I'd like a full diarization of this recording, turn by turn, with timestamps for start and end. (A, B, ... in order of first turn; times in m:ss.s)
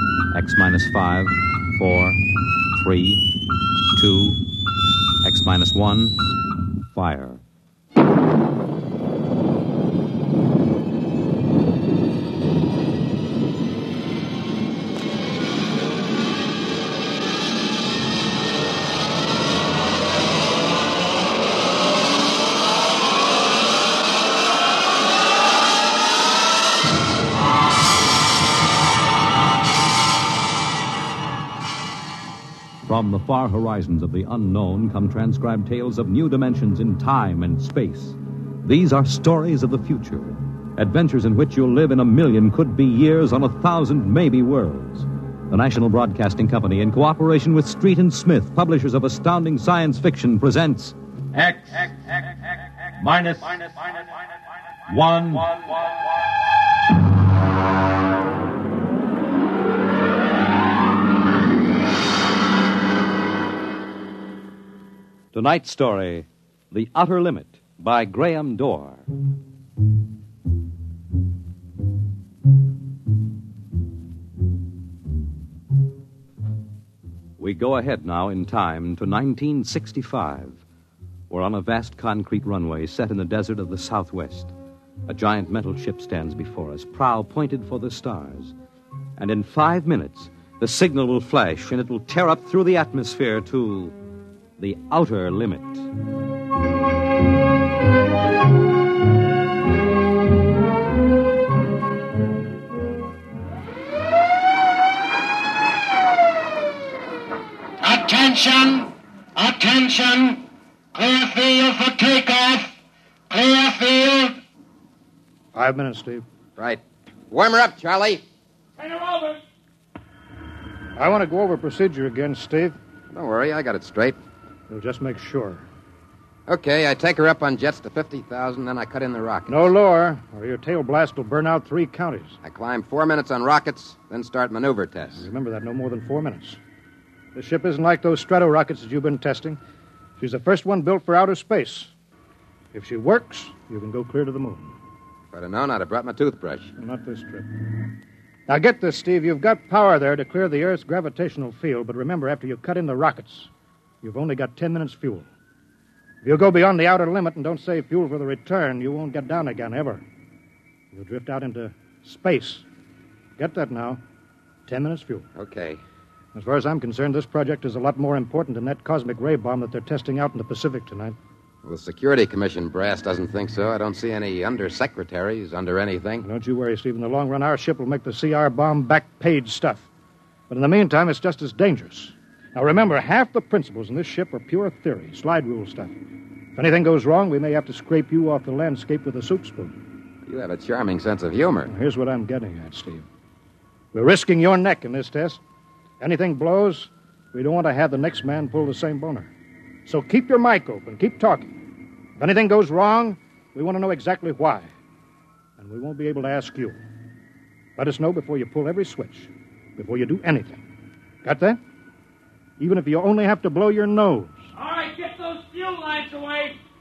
0:00.3-0:02.2 A
0:02.7-0:03.3 A
0:03.9-0:04.4 A
0:05.2-0:06.2 A
0:06.9-0:07.4 A
0:32.8-0:51.8 A
0:53.0-0:54.0 A
0:54.9-0:55.9 A
1:05.3-1:09.0 A
1:17.4-1:20.6 A
1:21.3-1:24.5 A
1:25.1-1:28.6 A
1:29.2-1:34.0 A
1:34.6-1:35.9 A
1:47.8-1:50.4 B
1:50.9-1:52.7 B
1:53.3-1:54.4 B
1:55.6-1:56.2 C
1:56.6-1:58.2 D
1:58.8-1:59.4 E
2:01.0-2:02.8 C
2:03.1-2:04.2 D
2:04.7-2:05.6 C
2:06.5-2:09.6 D
2:09.5-2:12.4 C
2:12.4-2:15.2 D
2:15.2-2:16.6 C
2:17.4-2:19.6 C
2:20.2-2:21.9 C
2:22.7-2:24.8 C
2:25.3-2:26.7 D
2:26.8-2:27.5 C
2:28.5-2:33.5 C
2:34.0-2:35.3 C
2:36.2-2:40.0 C
2:40.9-2:42.6 C
2:43.4-2:44.0 C
2:44.7-2:45.3 C
2:45.4-2:45.8 D
2:46.4-2:51.2 C
2:51.6-2:56.2 D
2:56.2-2:59.9 C
3:00.5-3:05.9 C
3:06.6-3:09.8 C
3:10.2-3:11.7 D
3:11.7-3:13.1 C
3:13.9-3:15.4 C
3:16.0-3:19.3 C
3:19.9-3:21.5 C
3:22.2-3:24.7 C
3:25.6-3:26.8 C
3:27.8-3:30.6 C
3:31.2-3:31.6 C
3:32.6-3:34.4 C
3:34.6-3:36.6 E